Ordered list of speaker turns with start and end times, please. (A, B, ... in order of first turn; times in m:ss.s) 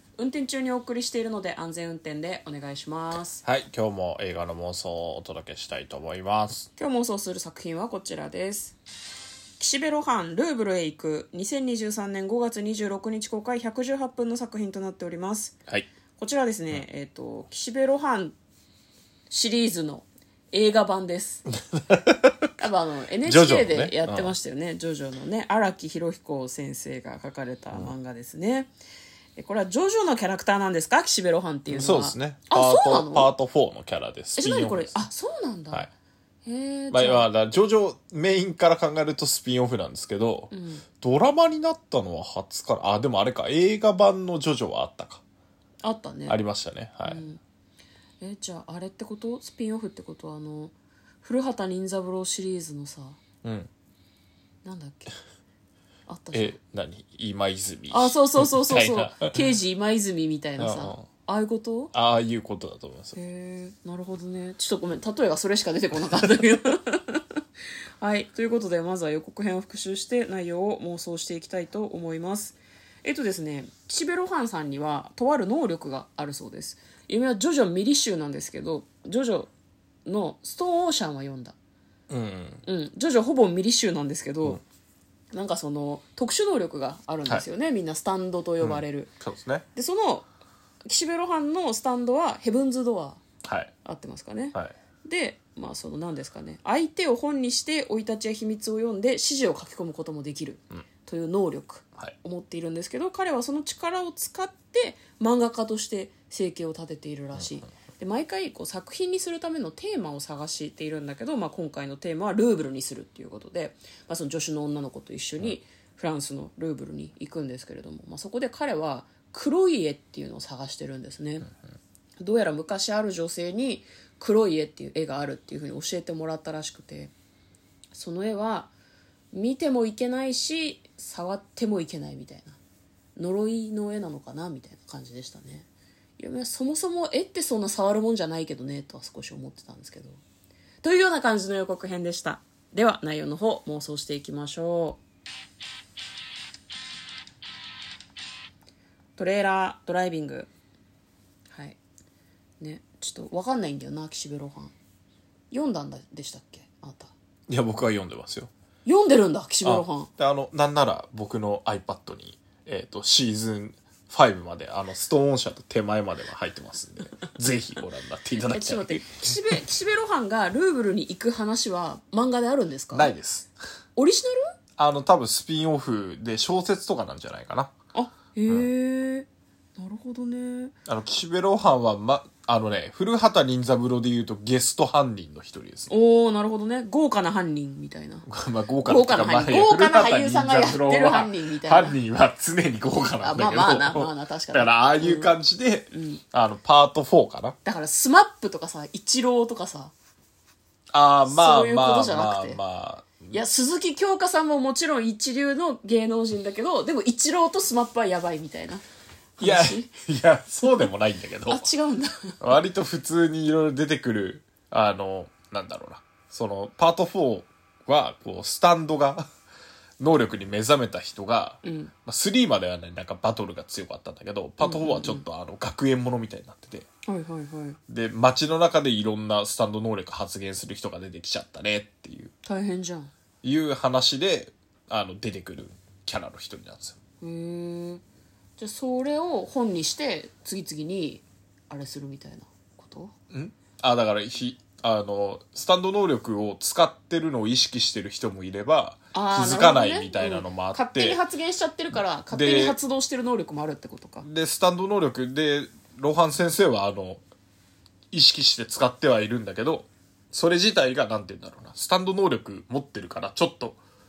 0:00.2-0:03.4 A
0:03.4-0:06.7 B
0:06.8-0:08.8 A
0:09.6-0:15.6 A
0:16.2-0:18.4 A
0:19.3-0:21.4 A
0:21.7-0:22.5 B
0:22.6-0:28.7 A
0:23.2-0:24.3 B
0:29.4-0:33.3 A
0:31.7-0:35.1 B
0:34.4-0:35.9 A
0:36.4-0:37.3 A
0:36.9-0:45.2 B
0:40.5-0:40.8 A
0:45.8-0:46.4 A
0:46.3-0:47.2 B
0:47.0-0:47.4 A
0:48.2-0:53.2 A
0:53.4-0:53.7 B
0:54.6-0:55.2 A
0:56.1-0:56.5 A
0:56.3-0:59.4 B
0:57.9-1:01.9 A
1:00.6-1:01.0 B
1:01.9-1:03.2 B
1:03.1-1:07.2 A
1:08.0-1:19.5 A
1:20.0-1:21.5 A
1:22.1-1:22.6 B
1:22.6-1:24.6 A
1:25.3-1:29.1 A
1:28.6-1:29.6 B
1:29.7-1:30.3 A
1:30.9-1:33.2 A
1:33.4-1:33.7 B
1:33.8-2:01.5 A
2:02.2-2:07.1 A
2:07.9-2:08.7 A
2:09.3-2:12.6 A
2:13.2-2:20.2 A
2:20.8-2:25.0 A
2:29.2-2:30.5 A
2:31.5-2:31.8 A
2:32.6-2:34.7 A
2:35.5-2:37.1 A
2:37.5-2:38.5 B
2:38.8-2:40.1 A
2:39.6-2:49.6 B
2:48.5-2:53.1 A
2:52.9-2:53.5 B
2:54.0-2:54.5 A
2:54.8-2:57.7 B
2:57.9-3:00.7 A
3:00.8-3:05.9 B
3:05.9-3:08.2 A
3:08.2-3:17.6 B
3:08.8-3:12.0 A
3:13.2-3:15.3 A
3:15.9-3:16.2 A
3:17.6-3:19.9 A
3:20.9-3:23.4 B
3:21.2-3:22.6 A
3:23.3-3:28.8 A
3:29.4-3:29.9 A
3:29.4-3:31.6 B
3:31.5-3:32.4 A
3:32.4-3:39.2 B
3:40.0-3:46.9 B
3:41.6-3:41.9 A
3:44.6-3:45.2 A
3:47.1-3:47.8 A
3:47.9-3:52.3 B
3:52.4-3:53.1 A
3:53.4-3:57.0 B
3:57.2-3:58.0 A
3:58.6-4:03.1 A
4:03.3-4:11.2 B
4:09.1-4:14.2 A
4:12.3-4:12.8 B
4:14.2-4:17.2 B
4:18.1-4:23.8 B